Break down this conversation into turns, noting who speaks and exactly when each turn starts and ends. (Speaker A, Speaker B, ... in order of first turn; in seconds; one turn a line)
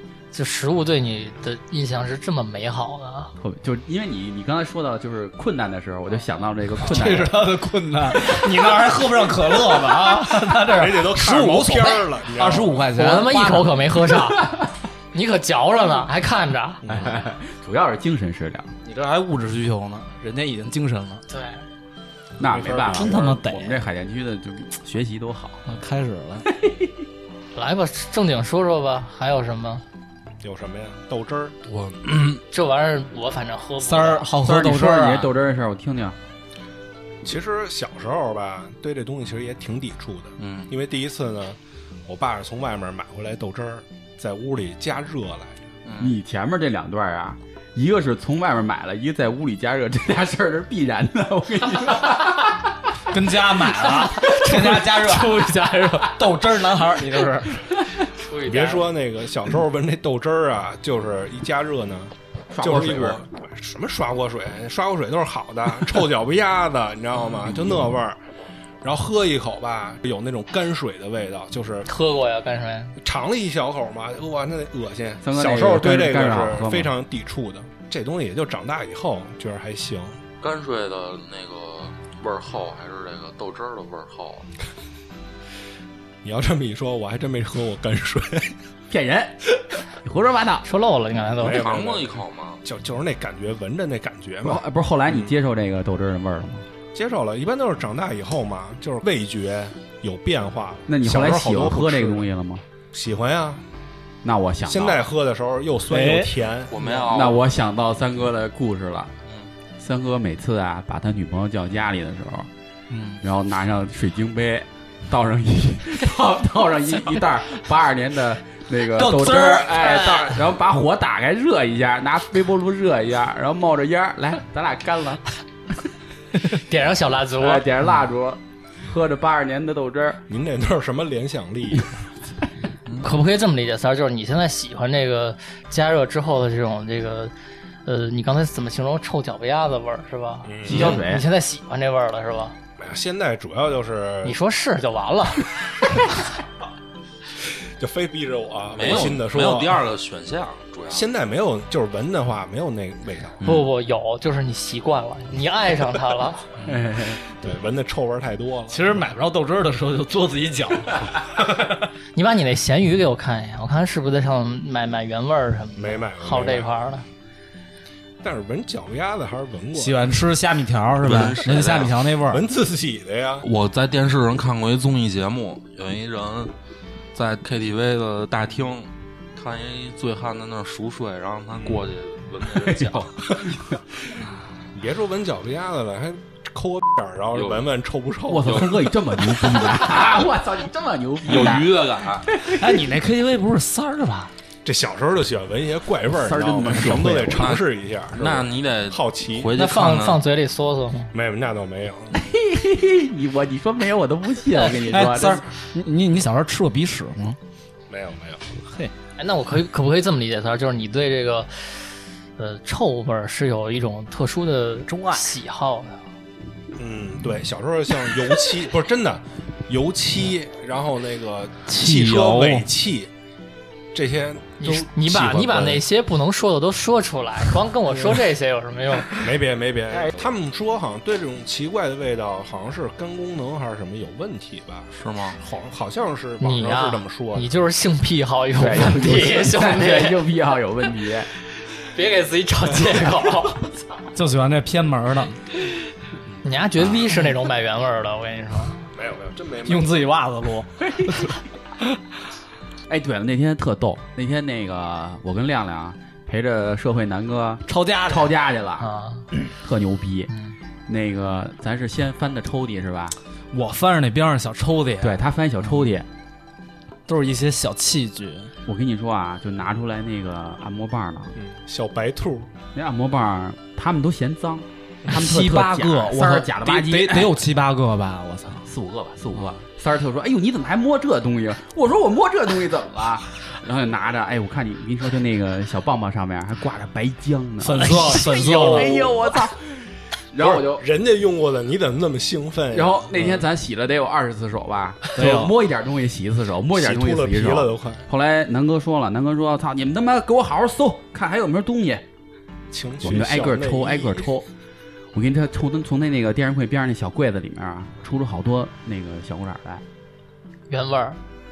Speaker A: 0.3-3.3
Speaker B: 3.4-7.4
Speaker C: 6.8-13.7
Speaker D: 10.7-12.8
Speaker A: 12.9-14.5
Speaker A: 15.1-16.8
Speaker B: 16.9-18.7
Speaker C: 18.8-21.2
Speaker A: 21.3-21.6
Speaker B: 22.4-25.6
Speaker D: 22.4-23.4
Speaker C: 22.9-23.8
Speaker C: 25.6-26.5
Speaker B: 26.4-26.9
Speaker A: 27.5-29.8
Speaker D: 30.4-31.6
Speaker E: 31.7-32.1
Speaker A: 32.5-34.3
Speaker C: 33.8-35.3
Speaker B: 34.4-36.2
Speaker D: 37.2-45.6
Speaker E: 40.4-40.7
Speaker E: 45.8-46.1
Speaker B: 46.0-52.9
Speaker C: 53.1-55.5
Speaker B: 53.8-56.3
Speaker C: 56.1-57.6
Speaker A: 58.1-58.8
Speaker D: 58.4-68.2
Speaker B: 62.5-63.2
Speaker D: 68.8-71.9
Speaker A: 71.9-73.0
Speaker D: 73.0-80.2
Speaker B: 75.2-76.9
Speaker E: 80.4-84.5
Speaker D: 86.2-88.5
Speaker B: 88.9-90.6
Speaker A: 90.6-91.7
Speaker D: 91.4-95.3
Speaker E: 91.4-92.6
Speaker B: 94.4-96.6
Speaker D: 96.9-102.3
Speaker B: 100.9-102.6
Speaker D: 102.9-103.6
Speaker B: 104.2-105.1
Speaker D: 104.7-107.0
Speaker C: 105.9-106.3
Speaker E: 106.7-107.5
Speaker B: 107.1-109.1
Speaker B: 109.8-112.5
Speaker C: 112.9-113.2
Speaker B: 113.2-125.2
Speaker C: 119.0-120.3
Speaker A: 126.5-127.7
Speaker B: 127.4-130.2
Speaker D: 130.3-131.9
Speaker A: 133.0-137.3
Speaker A: 137.8-142.6
Speaker D: 140.4-141.0
Speaker B: 140.6-141.3
Speaker E: 140.7-141.0
Speaker D: 142.8-144.4
Speaker A: 144.2-145.5
Speaker D: 147.8-149.8
Speaker E: 148.7-151.1
Speaker D: 150.9-153.4
Speaker A: 153.4-156.5
Speaker B: 156.6-157.2
Speaker D: 157.4-158.9
Speaker C: 158.7-161.7
Speaker A: 162.1-167.0
Speaker D: 165.8-166.7
Speaker D: 168.2-170.2
Speaker C: 169.7-172.5
Speaker E: 171.0-171.9
Speaker D: 172.3-173.5
Speaker E: 173.4-176.5
Speaker E: 177.1-183.1
Speaker B: 182.5-183.8
Speaker D: 184.7-188.9
Speaker E: 187.3-187.6
Speaker B: 188.3-191.8
Speaker E: 191.2-192.3
Speaker B: 192.3-192.8
Speaker C: 192.5-194.3
Speaker D: 194.6-199.5
Speaker B: 196.1-197.6
Speaker E: 197.3-200.2
Speaker A: 199.5-201.1
Speaker D: 201.1-202.2
Speaker B: 202.1-205.4
Speaker C: 204.8-207.4
Speaker D: 207.9-208.6
Speaker C: 208.6-208.9
Speaker A: 209.2-216.0
Speaker C: 214.8-215.2
Speaker D: 216.8-223.1
Speaker C: 221.7-222.7
Speaker D: 223.9-225.8
Speaker A: 224.6-229.2
Speaker D: 227.9-228.2
Speaker D: 229.1-237.5
Speaker E: 234.9-235.4
Speaker A: 236.4-240.2
Speaker B: 238.6-241.3
Speaker A: 241.9-243.7
Speaker C: 244.1-245.4
Speaker A: 246.4-248.9
Speaker D: 248.9-250.1
Speaker C: 249.7-251.3
Speaker B: 250.9-251.2
Speaker B: 252.9-260.3
Speaker C: 257.7-258.3
Speaker A: 258.8-259.2
Speaker B: 260.9-263.1
Speaker C: 263.5-265.2
Speaker B: 265.0-266.1
Speaker C: 267.1-268.5
Speaker B: 268.6-271.3
Speaker D: 271.3-272.5
Speaker B: 272.7-277.4
Speaker C: 275.1-278.6
Speaker B: 278.6-290.8
Speaker C: 287.6-288.9
Speaker D: 288.2-289.1
Speaker D: 290.4-293.4
Speaker B: 292.7-302.0
Speaker C: 295.1-295.5
Speaker D: 296.7-298.1
Speaker D: 302.7-304.3
Speaker B: 303.0-304.4
Speaker B: 305.1-309.8
Speaker A: 310.7-311.2